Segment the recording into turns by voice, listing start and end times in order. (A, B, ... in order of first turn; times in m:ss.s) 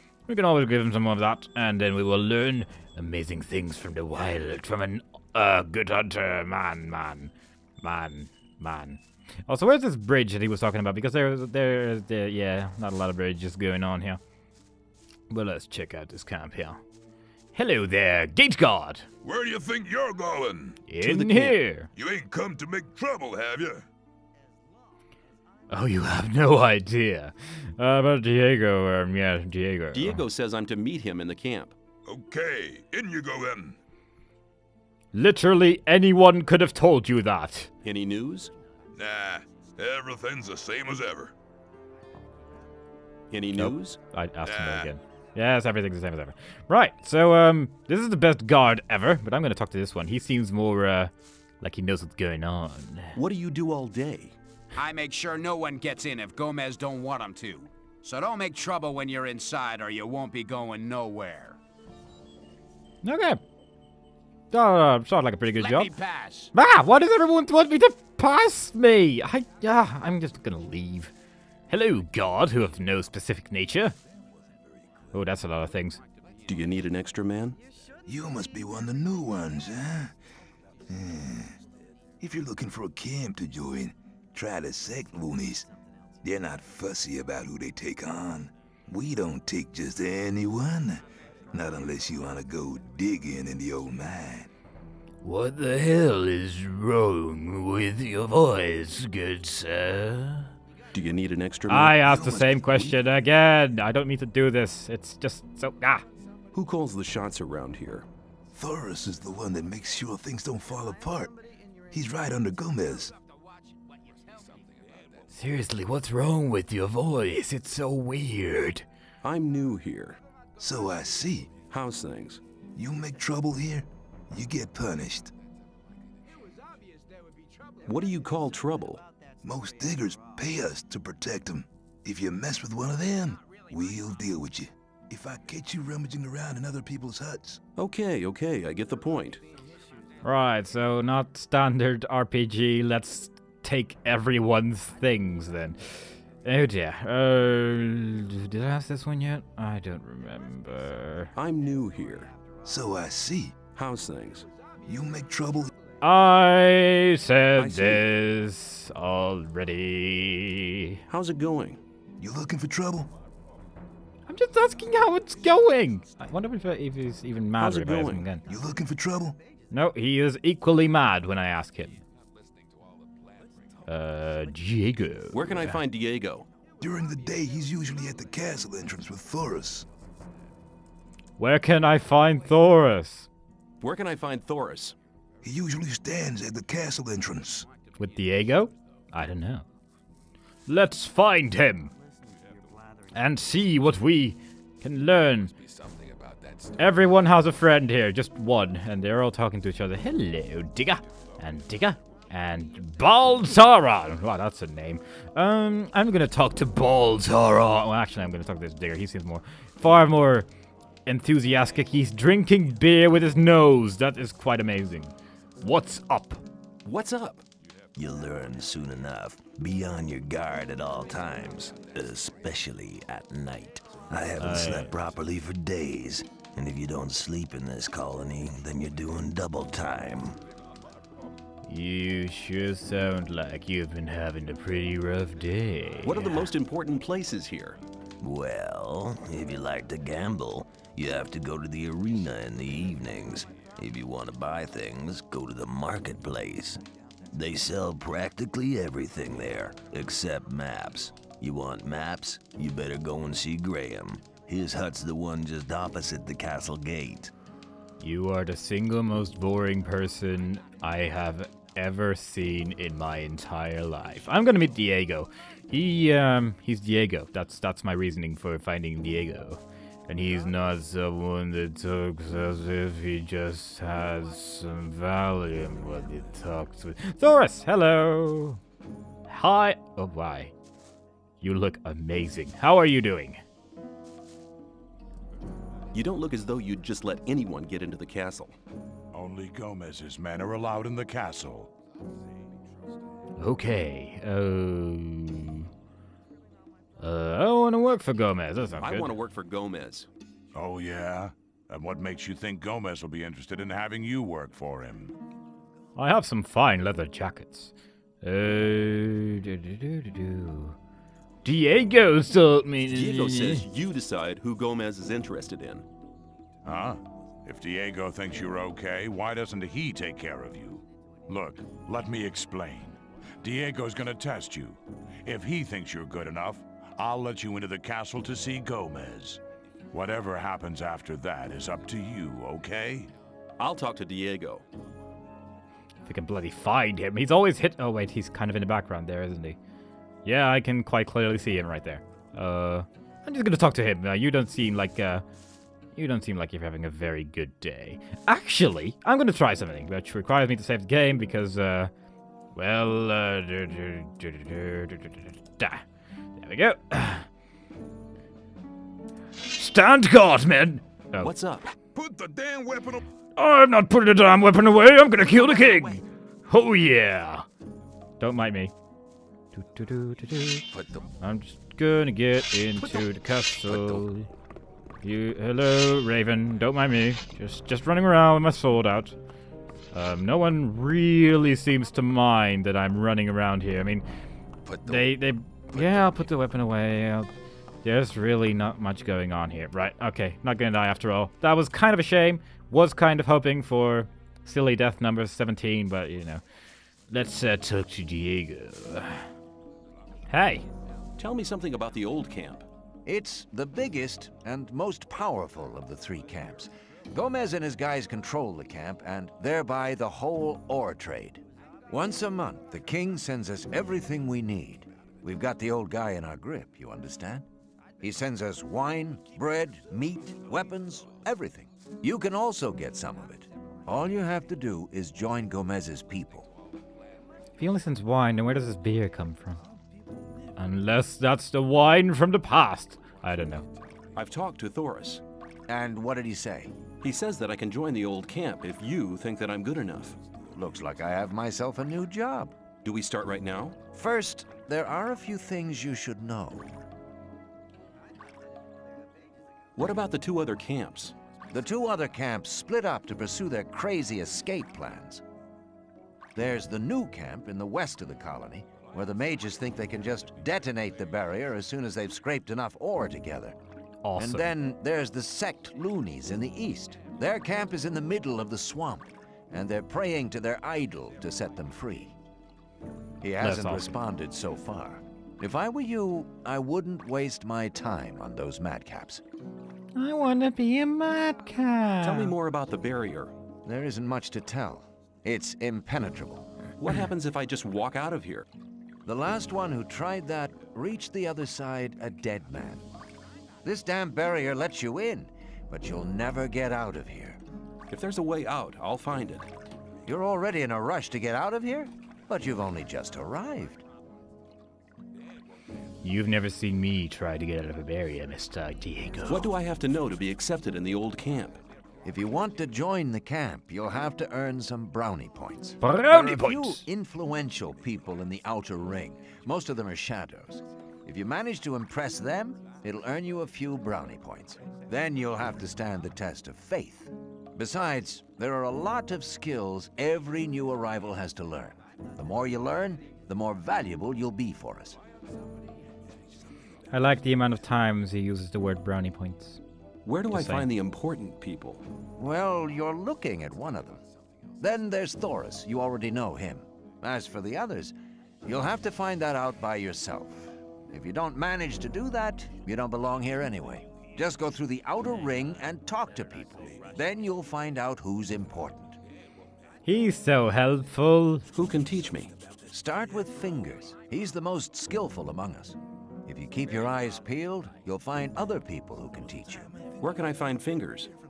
0:00.3-0:14.2 A
0:15.3-0:16.8 A
0:17.5-0:19.1 A
0:19.2-0:20.8 B
0:20.9-0:21.9 A
0:21.0-0:21.6 C
0:22.0-0:23.8 B
0:25.7-0:30.2 A
0:29.9-0:31.7 C
0:32.1-0:33.8 B
0:35.1-0:37.7 A
0:37.8-0:38.5 C
0:39.0-0:41.3 B
0:43.3-0:44.0 C
0:43.6-0:53.1 A
0:44.4-0:44.9 B
0:53.1-0:54.3 C
0:54.7-1:01.6 D
1:03.0-1:03.4 A
1:04.5-1:05.9 A
1:05.6-1:06.5 D
1:06.5-1:11.1 A
1:11.7-1:13.9 A
1:15.1-1:16.0 A
1:16.5-1:17.6 C
1:18.0-1:20.1 B
1:20.9-1:21.6 B
1:22.2-1:25.7 B
1:26.2-1:31.0 B
1:31.5-1:34.5 B
1:35.2-1:40.5 A
1:40.9-1:42.3 C
1:41.7-1:46.0 A
1:42.0-1:42.9 B
1:46.5-1:48.0 C
1:48.5-1:51.3 B
1:51.9-1:53.1 B
1:55.3-1:58.8 A
1:59.2-2:00.2 C
2:00.6-2:01.5 B
2:01.7-2:02.4 C
2:02.8-2:05.3 B
2:07.9-2:09.0 C
2:09.4-2:17.6 B
2:17.8-2:19.4 C
2:20.2-2:31.3 A
2:31.3-2:32.3 C
2:32.6-2:33.6 B
2:33.7-2:34.5 C
2:34.9-2:35.7 B
2:36.0-2:41.0 A
2:37.6-2:38.0 C
2:41.1-2:41.8 C
2:42.2-2:43.1 B
2:44.3-2:48.4 A
2:47.6-2:48.3 C
2:48.4-2:49.4 B
2:49.7-2:52.0 A
2:53.9-2:55.8 A
2:55.3-2:56.5 C
2:56.8-2:59.9 B
3:01.4-3:03.3 A
3:03.8-3:04.9 C
3:05.4-3:07.7 B
3:08.0-3:09.6 A
3:10.7-3:11.9 A
3:13.1-3:15.5 A
3:16.8-3:30.5 A
3:31.0-3:36.4 A
3:36.8-3:37.4 C
3:38.0-3:50.4 E
3:44.4-3:44.9 A
3:51.7-3:56.5 A
3:56.0-3:57.8 C
3:58.2-4:17.3 E
4:18.0-4:38.6 A
4:39.3-4:40.5 A
4:41.4-4:43.4 A
4:45.9-4:48.6 C
4:49.1-4:51.7 F
4:53.4-4:55.7 A
4:57.0-4:59.1 A
4:58.8-5:00.1 C
5:00.5-5:05.1 F
5:06.0-5:10.8 A
5:11.4-5:13.6 A
5:12.9-5:15.8 C
5:16.6-5:29.4 F
5:29.9-5:33.1 F
5:33.6-5:34.6 C
5:36.0-5:39.6 A
5:40.2-5:45.2 A
5:45.9-5:51.9 A
5:52.5-5:55.8 A
5:56.4-5:57.2 A
5:59.4-6:01.3 A
6:01.2-6:01.7 C
6:01.9-6:03.1 B
6:03.4-6:07.5 A
6:08.2-6:08.7 A
6:09.5-6:10.6 A
6:10.7-6:11.1 B
6:11.2-6:14.3 A
6:13.7-6:14.0 B
6:15.0-6:19.2 A
6:19.9-6:24.0 A
6:24.6-6:25.2 B
6:24.8-6:27.3 A
6:25.7-6:26.2 B
6:27.8-6:36.4 A
6:37.1-6:39.3 A
6:40.3-6:40.7 A
6:41.2-6:42.6 C
6:43.0-6:57.4 G
6:58.0-7:06.5 G
7:07.6-7:09.6 A
7:10.6-7:13.6 A
7:14.1-7:15.2 C
7:15.7-7:16.7 G
7:17.0-7:20.2 C
7:20.5-7:22.5 G
7:22.8-7:23.8 C
7:23.9-7:26.8 G
7:29.8-7:31.1 C
7:31.5-7:35.2 G
7:36.3-7:43.6 G
7:44.0-7:44.5 A
7:44.2-7:52.1 G
7:53.2-7:59.2 G
7:53.4-7:53.9 A
7:59.9-8:02.3 A
8:02.0-8:03.3 C
8:03.6-8:06.5 G
8:06.8-8:08.5 C
8:09.0-8:12.8 G
8:13.6-8:17.4 G
8:17.9-8:19.5 C
8:20.0-8:23.8 G
8:26.0-8:29.5 A
8:29.3-8:31.6 C
8:32.0-8:55.0 G
8:35.8-8:36.8 A
8:56.9-8:59.6 A
9:00.0-9:01.8 C
9:00.3-9:00.6 A
9:02.2-9:04.0 G
9:04.6-9:19.0 G
9:19.8-9:21.4 A
9:21.5-9:22.3 C
9:22.7-9:29.7 G
9:30.0-9:31.1 C